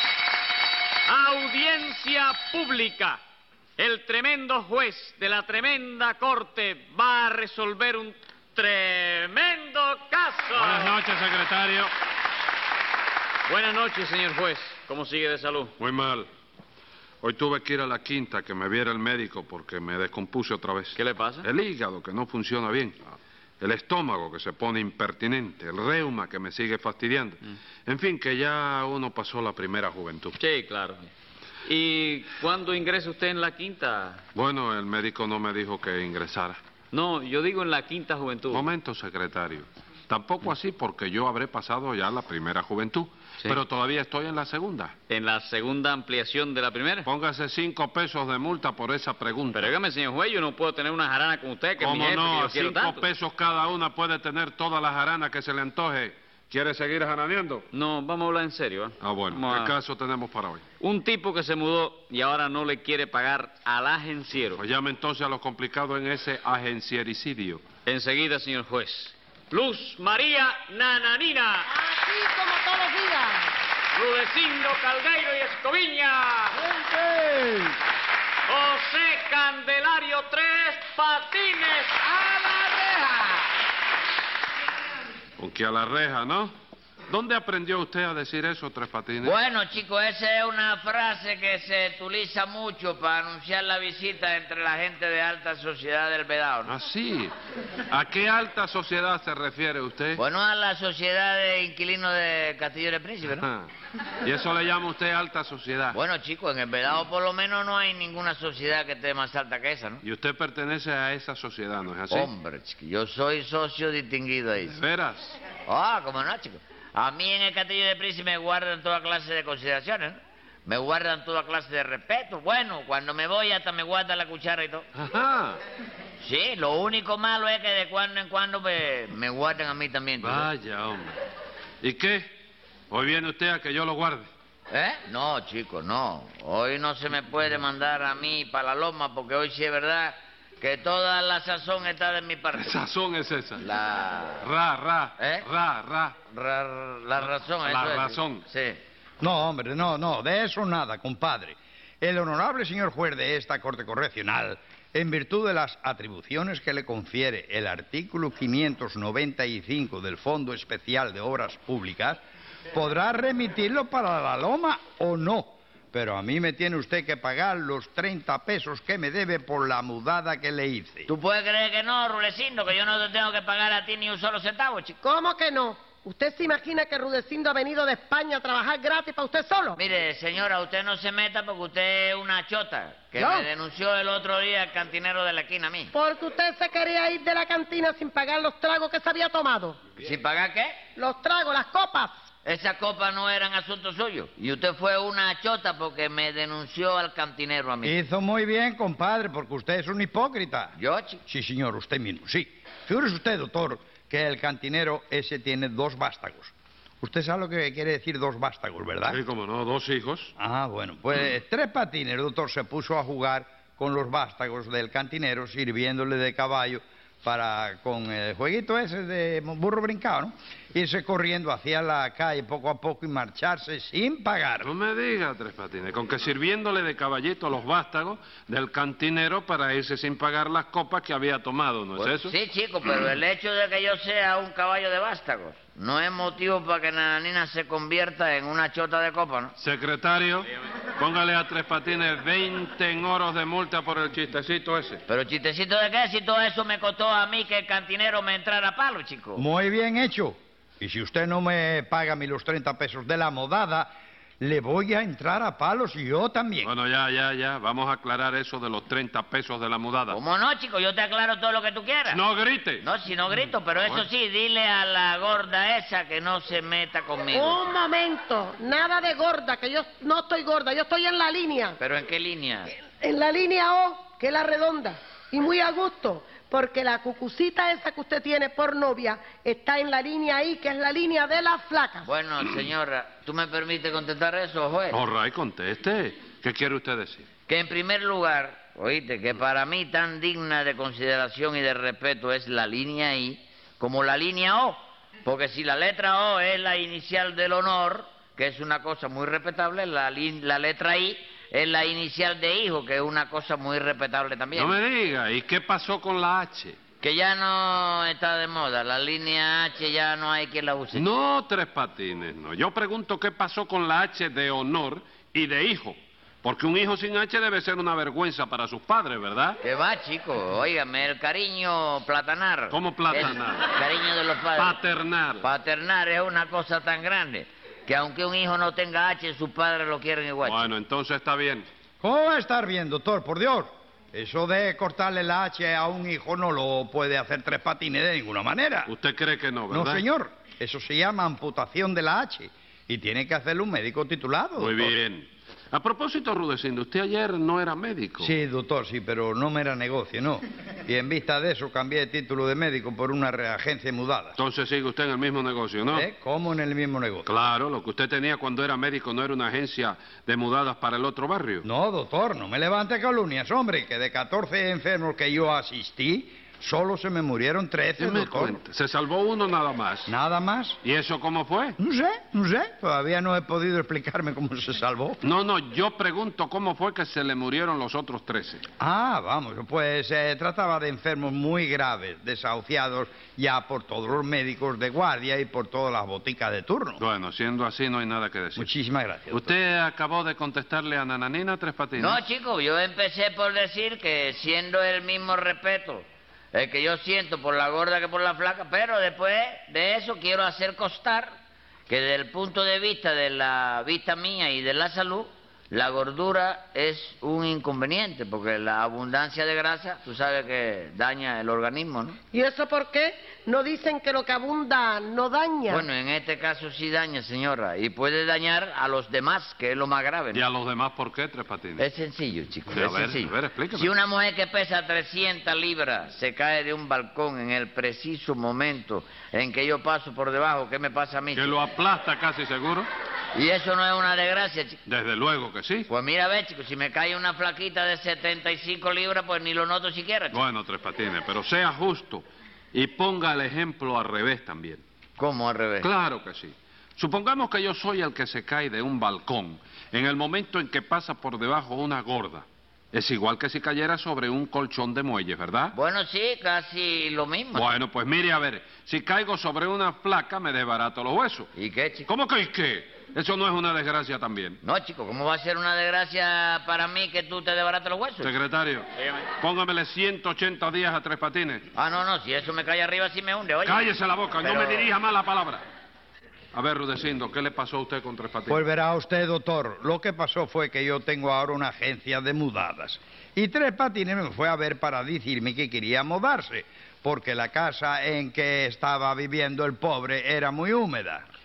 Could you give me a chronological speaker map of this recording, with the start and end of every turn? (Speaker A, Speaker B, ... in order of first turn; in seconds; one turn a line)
Speaker A: 1.1-3.2
Speaker A: 3.8-11.0
Speaker B: 10.6-11.9
Speaker A: 13.5-15.7
Speaker B: 15.8-16.3
Speaker B: 17.2-30.4
Speaker A: 20.9-21.4
Speaker A: 30.4-31.1
Speaker A: 31.6-34.2
Speaker B: 34.3-36.6
Speaker A: 36.9-38.7
Speaker B: 38.5-45.0
Speaker A: 45.1-47.0
Speaker B: 47.0-49.7
Speaker A: 49.5-53.0
Speaker B: 51.8-57.7
Speaker A: 57.7-59.7
Speaker B: 59.0-60.6
Speaker A: 60.8-64.6
Speaker B: 64.5-67.6
Speaker A: 67.8-71.7
Speaker C: 71.8-73.5
Speaker A: 73.9-76.7
Speaker B: 77.1-77.5
Speaker A: 78.5-82.5
Speaker B: 85.4-86.5
Speaker B: 87.1-89.4
Speaker D: 89.2-96.7
Speaker B: 96.7-97.3
Speaker B: 97.9-100.2
Speaker D: 100.2-103.4
Speaker B: 103.4-103.7
Speaker B: 104.2-106.0
Speaker D: 105.9-110.0
Speaker B: 110.0-112.3
Speaker D: 112.1-114.8
Speaker B: 114.6-115.4
Speaker D: 115.7-124.8
Speaker B: 124.9-125.6
Speaker D: 126.2-130.5
Speaker B: 130.2-131.1
Speaker B: 131.8-132.3
Speaker B: 132.9-134.3
Speaker D: 134.7-142.8
Speaker B: 142.6-143.6
Speaker D: 143.6-144.5
Speaker B: 144.4-146.2
Speaker D: 145.2-145.4
Speaker D: 146.3-148.8
Speaker B: 147.6-148.4
Speaker E: 149.2-162.2
Speaker E: 162.7-171.1
Speaker D: 171.1-175.0
Speaker C: 175.0-179.8
Speaker D: 179.8-185.9
Speaker C: 183.2-183.5
Speaker C: 185.9-189.8
Speaker D: 190.0-190.8
Speaker C: 190.9-192.2
Speaker D: 192.4-198.0
Speaker E: 197.8-200.7
Speaker D: 200.7-201.2
Speaker E: 201.3-209.2
Speaker B: 209.0-210.3
Speaker E: 210.4-224.7
Speaker B: 224.6-232.3
Speaker D: 232.0-239.5
Speaker B: 239.6-245.0
Speaker D: 245.1-249.4
Speaker E: 249.3-253.9
Speaker E: 254.4-256.7
Speaker B: 256.6-260.2
Speaker D: 260.1-262.2
Speaker B: 262.1-262.8
Speaker D: 262.8-267.6
Speaker B: 263.8-264.1
Speaker C: 267.3-271.8
Speaker D: 271.8-272.7
Speaker C: 272.8-282.1
Speaker D: 282.0-285.0
Speaker B: 284.9-287.3
Speaker D: 287.5-304.8
Speaker B: 304.5-306.8
Speaker D: 307.0-311.1
Speaker B: 310.9-319.6
Speaker D: 319.6-324.8
Speaker B: 322.7-323.8
Speaker B: 324.6-325.5
Speaker D: 325.4-330.7
Speaker B: 330.4-331.6
Speaker E: 332.0-338.9
Speaker B: 338.9-340.0
Speaker E: 339.7-344.9
Speaker B: 344.6-348.3
Speaker E: 348.2-354.4
Speaker B: 354.4-356.1
Speaker E: 355.9-357.3
Speaker B: 357.2-361.6
Speaker E: 361.6-368.6
Speaker B: 368.0-370.1
Speaker E: 370.1-370.8
Speaker B: 370.8-371.8
Speaker E: 371.8-375.2
Speaker B: 375.2-378.6
Speaker E: 378.8-387.0
Speaker B: 387.0-388.7
Speaker E: 388.6-389.5
Speaker B: 389.3-392.2
Speaker D: 392.0-401.3
Speaker D: 401.9-412.2
Speaker C: 412.3-415.9
Speaker D: 415.7-420.4
Speaker B: 420.3-421.9
Speaker D: 421.8-431.6
Speaker B: 422.7-423.9
Speaker B: 431.3-432.9
Speaker D: 433.3-434.8
Speaker B: 434.9-435.9
Speaker D: 435.9-440.4
Speaker B: 440.3-444.8
Speaker D: 445.2-445.9
Speaker B: 445.8-455.7
Speaker D: 455.7-457.7
Speaker B: 457.5-461.5
Speaker D: 461.6-462.1
Speaker B: 462.1-464.6
Speaker D: 464.6-468.3
Speaker B: 468.2-468.9
Speaker A: 469.0-469.2
Speaker B: 469.4-471.6
Speaker D: 471.7-474.9
Speaker B: 473.6-475.6
Speaker B: 476.5-478.6
Speaker E: 478.5-491.2